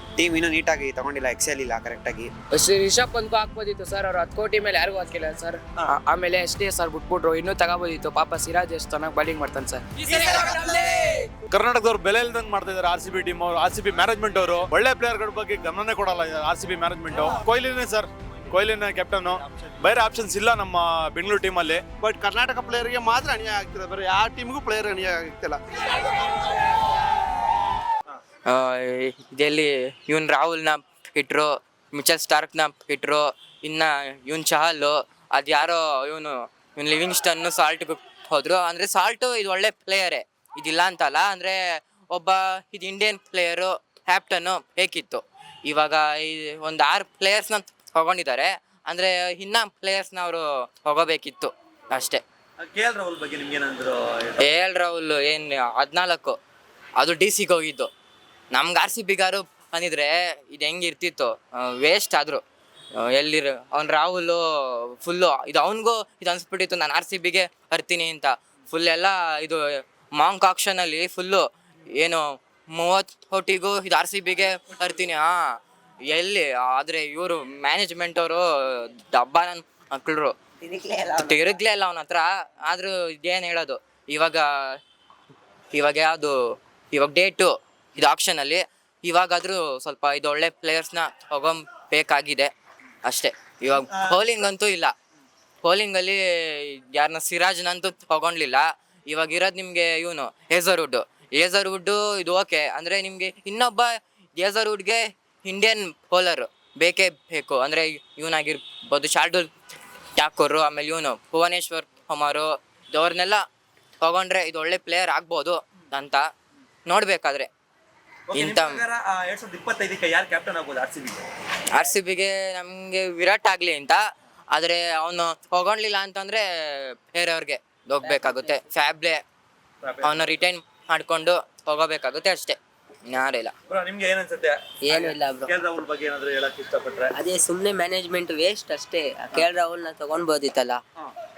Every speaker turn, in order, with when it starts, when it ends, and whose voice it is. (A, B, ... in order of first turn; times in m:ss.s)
0:00.2-0:02.3 A
0:02.5-0:09.8 B
0:10.6-0:10.9 C
0:11.5-0:21.8 D
0:19.4-0:19.8 C
0:22.0-0:25.6 E
0:28.4-0:52.2 F
0:52.6-0:54.5 C
0:54.4-0:56.4 F
0:57.0-0:57.9 F
0:58.5-1:02.4 F
1:03.1-1:04.4 F
1:05.0-1:09.6 F
1:10.1-1:15.5 F
1:16.1-1:20.3 F
1:20.6-1:21.4 G
1:21.2-1:24.4 F
1:25.7-1:26.4 F
1:26.9-1:32.5 F
1:33.0-1:34.9 F
1:33.9-1:34.4 C
1:35.6-1:49.5 F
1:50.2-1:53.4 F
1:54.0-1:56.2 F
1:56.8-1:57.5 F
1:58.3-2:01.2 C
1:58.3-1:58.9 F
2:01.7-2:09.2 F
2:09.8-2:10.3 C
2:10.0-2:13.5 F
2:13.7-2:17.1 C
2:14.8-2:15.6 G
2:17.1-2:20.8 G